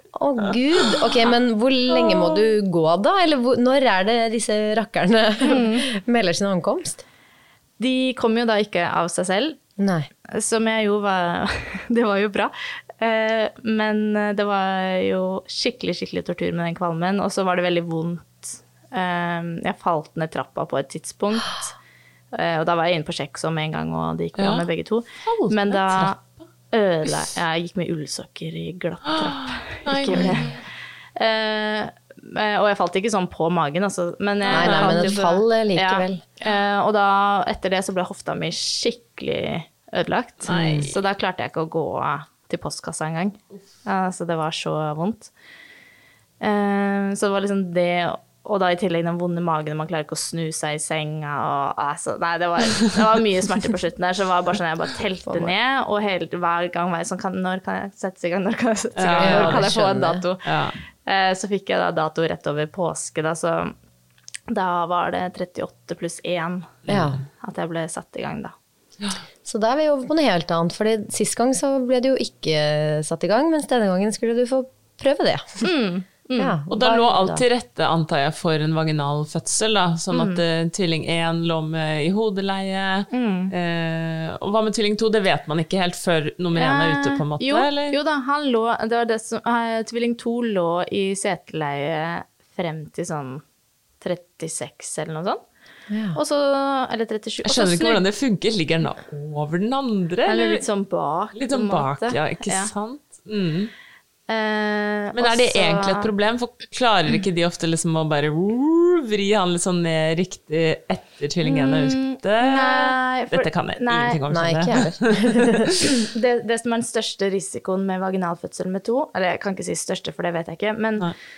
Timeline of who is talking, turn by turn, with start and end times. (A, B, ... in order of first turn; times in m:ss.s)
0:00.1-0:07.0 A
0:05.4-0:05.8 B
0:07.8-0:09.6 B
0:09.8-0:10.1 A
0:10.3-0:21.7 B
0:22.3-0:26.2 B
0:24.4-0:24.7 C
0:25.2-0:26.4 C
0:26.7-0:30.5 B
0:29.1-0:30.6 C
0:30.1-0:30.5 A
0:31.2-0:45.3 B
0:34.5-0:35.1 C
0:34.5-0:36.2 A
0:40.5-0:41.0 C
0:40.5-0:40.9 A
0:46.4-1:00.4 B
0:55.3-0:55.5 A
0:59.0-0:59.8 C
0:59.2-1:00.2 A
1:00.4-1:00.8 C
1:01.0-1:03.7 B
1:04.5-1:06.8 B
1:06.8-1:07.2 C
1:06.9-1:07.2 A
1:07.4-1:08.5 B
1:09.4-1:15.7 A
1:15.6-1:16.6 B
1:16.4-1:17.4 A
1:16.7-1:28.0 C
1:20.1-1:20.4 B
1:23.1-1:23.5 B
1:26.6-1:33.4 B
1:34.0-1:35.4 B
1:35.9-1:36.2 A
1:36.2-1:38.0 B
1:37.4-1:40.6 C
1:40.3-1:42.7 B
1:41.4-1:43.7 C
1:44.3-1:46.1 B
1:45.1-1:55.8 C
1:51.4-1:54.2 B
1:54.3-1:55.7 A
1:55.8-2:01.1 B